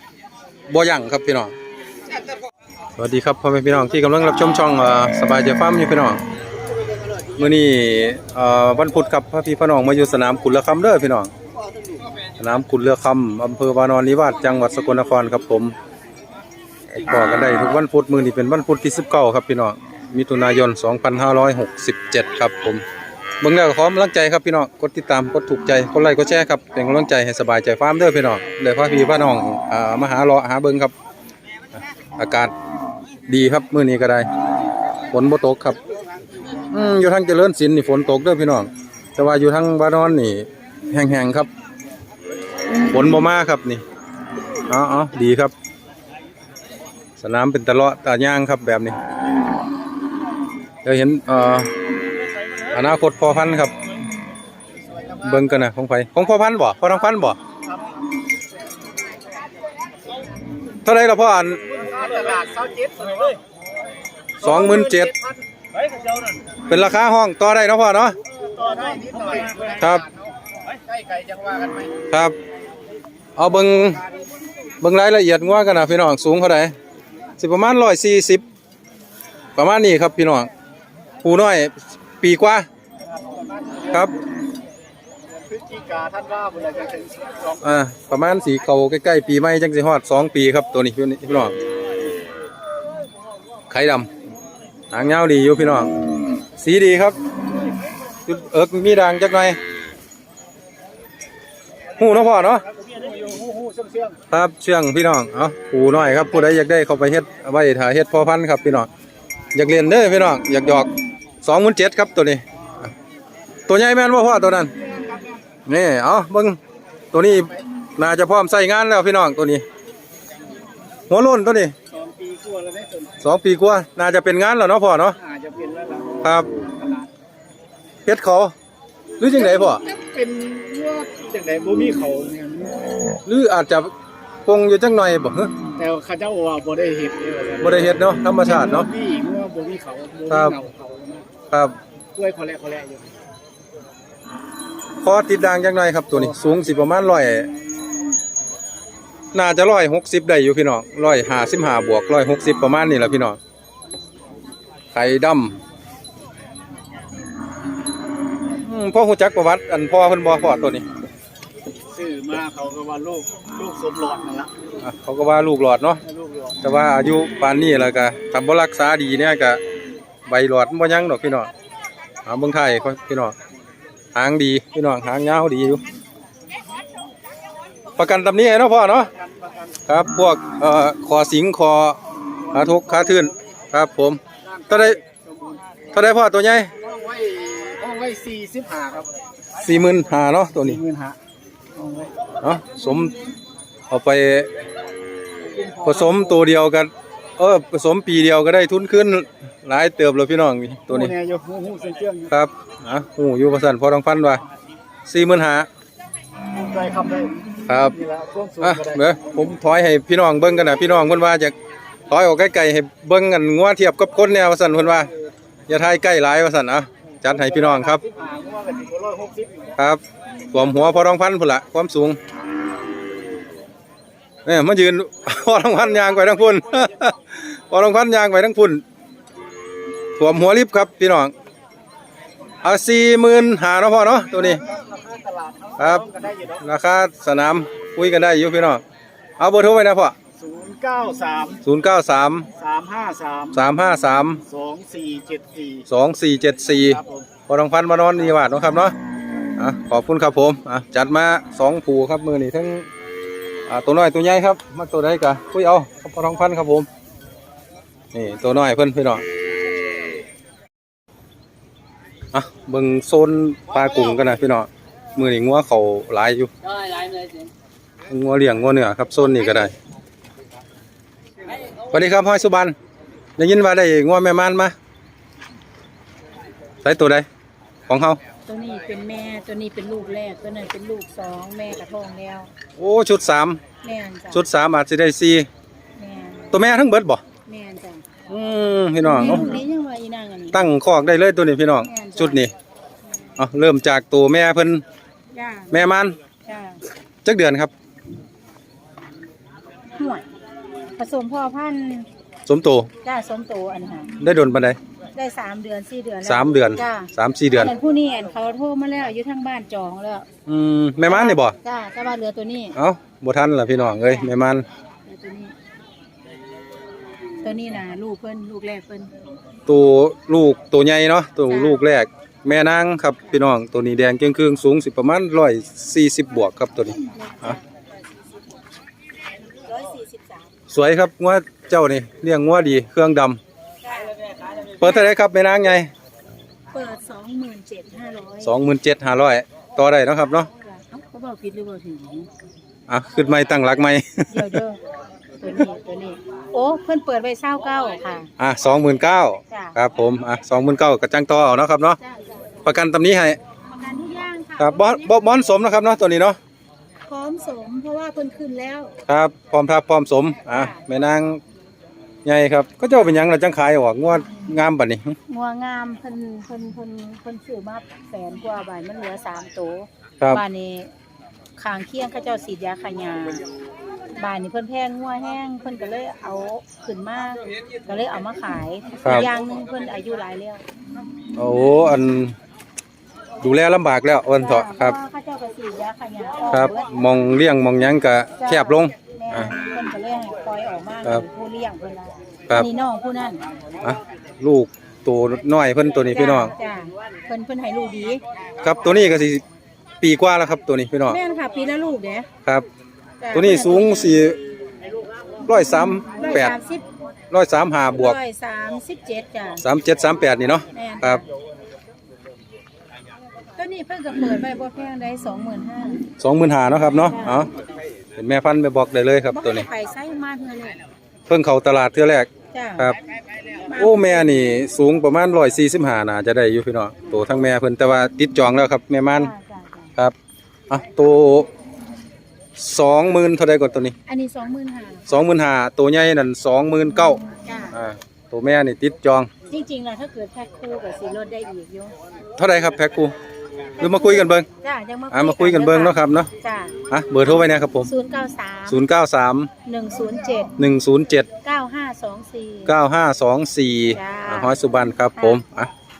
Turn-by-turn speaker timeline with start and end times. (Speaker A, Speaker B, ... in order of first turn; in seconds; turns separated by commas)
Speaker A: 0.7-1.5, Speaker A: 3.0-6.2, Speaker A: 7.4-11.3, Speaker A: 12.4-15.8, Speaker A: 17.0-22.8, Speaker A: 23.4-30.9, Speaker A: 32.2-32.5, Speaker A: 33.3-34.3, Speaker A: 35.1-35.8, Speaker A: 36.7-41.5, Speaker A: 42.8-43.8, Speaker A: 44.7-45.5, Speaker A: 47.2-49.0, Speaker A: 50.8-51.7, Speaker A: 52.7-53.7, Speaker A: 55.2-57.4, Speaker A: 60.8-61.6, Speaker B: 61.8-63.3, Speaker A: 64.4-65.1, Speaker A: 66.7-68.2, Speaker B: 68.5-69.8, Speaker A: 69.8-70.1, Speaker B: 71.2-71.6, Speaker A: 72.1-72.4, Speaker A: 73.4-74.0, Speaker A: 74.8-76.8, Speaker A: 77.4-78.4, Speaker A: 79.6-80.5, Speaker A: 81.2-82.7, Speaker B: 85.5-87.6, Speaker A: 87.6-91.6, Speaker A: 93.7-94.1, Speaker A: 94.9-95.9, Speaker A: 96.6-97.2, Speaker A: 98.2-99.6, Speaker A: 102.0-102.6, Speaker B: 102.8-104.1, Speaker A: 104.3-108.9, Speaker A: 109.5-110.9, Speaker A: 111.4-112.9, Speaker A: 113.7-114.7, Speaker A: 115.7-116.6, Speaker A: 117.1-119.7, Speaker A: 121.1-121.8, Speaker B: 122.0-123.1, Speaker A: 123.2-125.2, Speaker B: 125.2-126.2, Speaker A: 126.2-126.5, Speaker A: 128.1-128.5, Speaker A: 129.2-129.8, Speaker B: 129.4-132.8, Speaker A: 133.2-133.9, Speaker A: 134.5-135.5, Speaker B: 135.8-137.8, Speaker A: 137.6-138.9, Speaker B: 138.5-141.2, Speaker A: 140.3-140.6, Speaker A: 141.5-141.8, Speaker B: 142.2-143.2, Speaker A: 145.0-147.5, Speaker A: 149.3-153.4, Speaker A: 154.9-155.6, Speaker A: 158.6-160.9, Speaker B: 161.9-164.5, Speaker A: 164.8-166.0, Speaker B: 166.1-166.6, Speaker A: 166.6-169.6, Speaker A: 170.3-171.5, Speaker A: 172.2-173.3, Speaker A: 174.1-175.8, Speaker A: 178.0-179.1, Speaker A: 179.9-182.0, Speaker A: 182.5-185.0, Speaker B: 184.6-185.6, Speaker A: 185.9-186.7, Speaker B: 186.9-189.1, Speaker A: 189.6-190.8, Speaker B: 190.6-191.2, Speaker B: 191.8-192.1, Speaker A: 192.4-193.2, Speaker A: 193.9-194.5, Speaker B: 195.5-196.4, Speaker A: 195.8-201.2, Speaker B: 200.9-202.3, Speaker A: 202.3-204.4, Speaker A: 205.1-205.7, Speaker B: 206.6-207.3, Speaker A: 207.7-208.0, Speaker B: 208.0-209.0, Speaker A: 208.6-211.6, Speaker A: 212.1-215.1, Speaker A: 215.7-218.0, Speaker B: 217.4-219.7, Speaker A: 219.8-222.2, Speaker A: 224.4-228.8, Speaker A: 230.2-231.3, Speaker A: 232.6-234.6, Speaker B: 234.7-236.6, Speaker A: 235.8-236.1, Speaker A: 236.6-238.8, Speaker A: 239.4-240.2, Speaker B: 240.4-241.6, Speaker A: 241.6-242.5, Speaker B: 242.6-243.5, Speaker A: 243.5-244.4, Speaker B: 244.5-245.8, Speaker A: 245.9-249.0, Speaker B: 246.9-247.3, Speaker A: 249.6-252.9, Speaker A: 253.7-256.9, Speaker A: 258.1-259.2, Speaker A: 262.3-266.5, Speaker A: 268.1-269.7, Speaker A: 271.9-272.8, Speaker A: 273.4-274.7, Speaker A: 276.8-277.3, Speaker A: 277.9-278.2, Speaker C: 278.5-282.5, Speaker A: 282.8-283.6, Speaker C: 283.8-284.4, Speaker A: 284.3-285.5, Speaker C: 286.0-286.6, Speaker A: 286.5-287.2, Speaker C: 287.5-288.0, Speaker A: 288.3-289.5, Speaker C: 289.0-290.6, Speaker A: 290.5-292.5, Speaker C: 291.8-292.4, Speaker C: 293.1-293.4, Speaker A: 293.4-294.8, Speaker C: 295.3-295.9, Speaker A: 295.7-296.2, Speaker C: 296.5-296.8, Speaker A: 297.2-297.7, Speaker C: 300.0-300.3, Speaker C: 301.0-302.1, Speaker A: 302.5-302.9, Speaker C: 303.0-304.1, Speaker A: 304.2-304.8, Speaker C: 305.2-310.3, Speaker A: 306.2-307.7, Speaker A: 310.5-311.6, Speaker C: 311.1-312.8, Speaker A: 312.8-314.7, Speaker C: 314.1-314.3, Speaker C: 315.1-315.6, Speaker C: 317.4-319.1, Speaker A: 319.7-327.6, Speaker C: 321.5-321.8, Speaker C: 327.0-327.6, Speaker C: 329.6-330.5, Speaker A: 330.7-333.4, Speaker C: 333.8-334.2, Speaker C: 334.7-335.1, Speaker A: 334.8-335.9, Speaker C: 336.7-338.6, Speaker A: 338.4-340.5, Speaker C: 340.6-342.3, Speaker A: 342.9-344.6, Speaker C: 344.3-344.8, Speaker C: 345.4-348.3, Speaker A: 348.4-352.0, Speaker C: 349.5-349.8, Speaker C: 352.0-352.4, Speaker A: 352.6-353.4, Speaker C: 353.7-355.1, Speaker A: 354.6-356.4, Speaker C: 357.1-358.9, Speaker A: 359.1-361.4, Speaker C: 360.5-360.8, Speaker A: 362.2-365.2, Speaker C: 365.3-370.9, Speaker C: 371.6-373.4, Speaker C: 374.2-380.6, Speaker A: 381.4-382.4, Speaker A: 383.4-385.0, Speaker C: 384.4-387.0, Speaker A: 386.5-389.5, Speaker C: 388.4-393.4, Speaker A: 393.8-396.5, Speaker C: 396.1-398.2, Speaker A: 398.6-399.4, Speaker A: 400.0-401.2, Speaker C: 401.1-402.3, Speaker C: 403.2-404.2, Speaker A: 403.3-404.4, Speaker A: 405.5-406.6, Speaker C: 406.2-406.9, Speaker A: 407.3-408.2, Speaker C: 407.9-409.6, Speaker A: 409.6-411.2, Speaker C: 410.7-411.2, Speaker C: 413.6-416.0, Speaker A: 416.2-417.5, Speaker C: 416.9-417.5, Speaker A: 418.2-419.7, Speaker C: 419.3-420.8, Speaker A: 421.3-423.0, Speaker C: 422.5-423.0, Speaker C: 423.7-424.4, Speaker A: 423.8-429.3, Speaker C: 429.1-429.9, Speaker A: 430.7-431.5, Speaker A: 432.6-433.9, Speaker C: 434.1-435.1, Speaker A: 435.1-437.2, Speaker C: 437.4-437.7, Speaker A: 437.7-439.3, Speaker C: 439.5-441.9, Speaker A: 442.4-443.1, Speaker A: 443.8-444.5, Speaker C: 443.8-446.8, Speaker A: 445.1-446.3, Speaker A: 446.9-447.9, Speaker C: 447.3-448.8, Speaker A: 448.7-449.5, Speaker C: 449.6-450.5, Speaker A: 450.6-451.3, Speaker C: 451.4-452.7, Speaker A: 452.7-455.7, Speaker C: 453.9-454.5